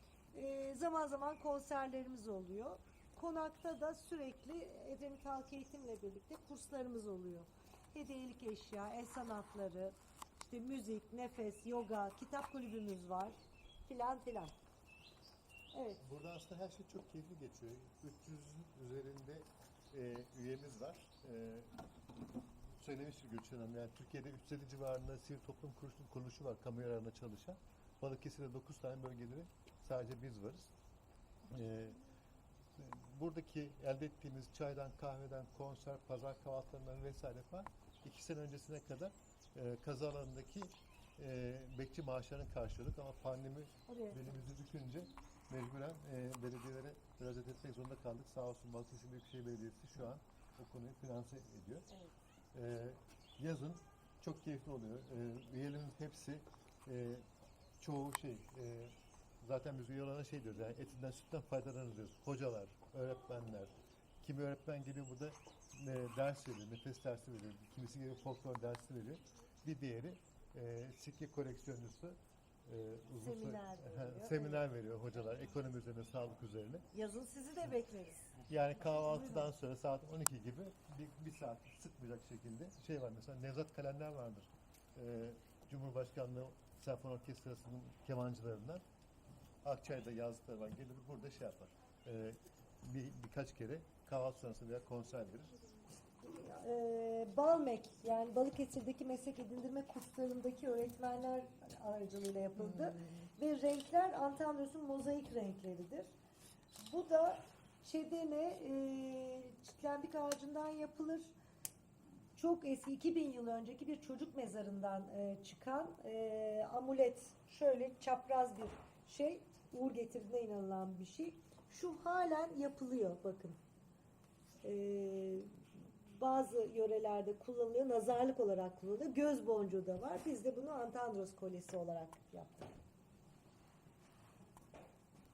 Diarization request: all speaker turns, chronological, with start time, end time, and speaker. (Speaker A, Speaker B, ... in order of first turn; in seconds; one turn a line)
Speaker A: 0.3-14.6
Speaker A: 15.7-16.0
Speaker B: 16.0-21.7
Speaker B: 22.8-30.7
Speaker B: 31.5-32.0
Speaker B: 32.8-51.9
Speaker A: 43.9-44.3
Speaker B: 52.5-57.2
Speaker B: 57.8-76.9
Speaker A: 73.2-74.7
Speaker A: 76.9-79.5
Speaker B: 78.5-88.8
Speaker B: 89.6-95.6
Speaker A: 96.2-106.1
Speaker B: 102.6-103.3
Speaker A: 106.8-111.3
Speaker A: 112.3-123.6
Speaker A: 124.6-132.7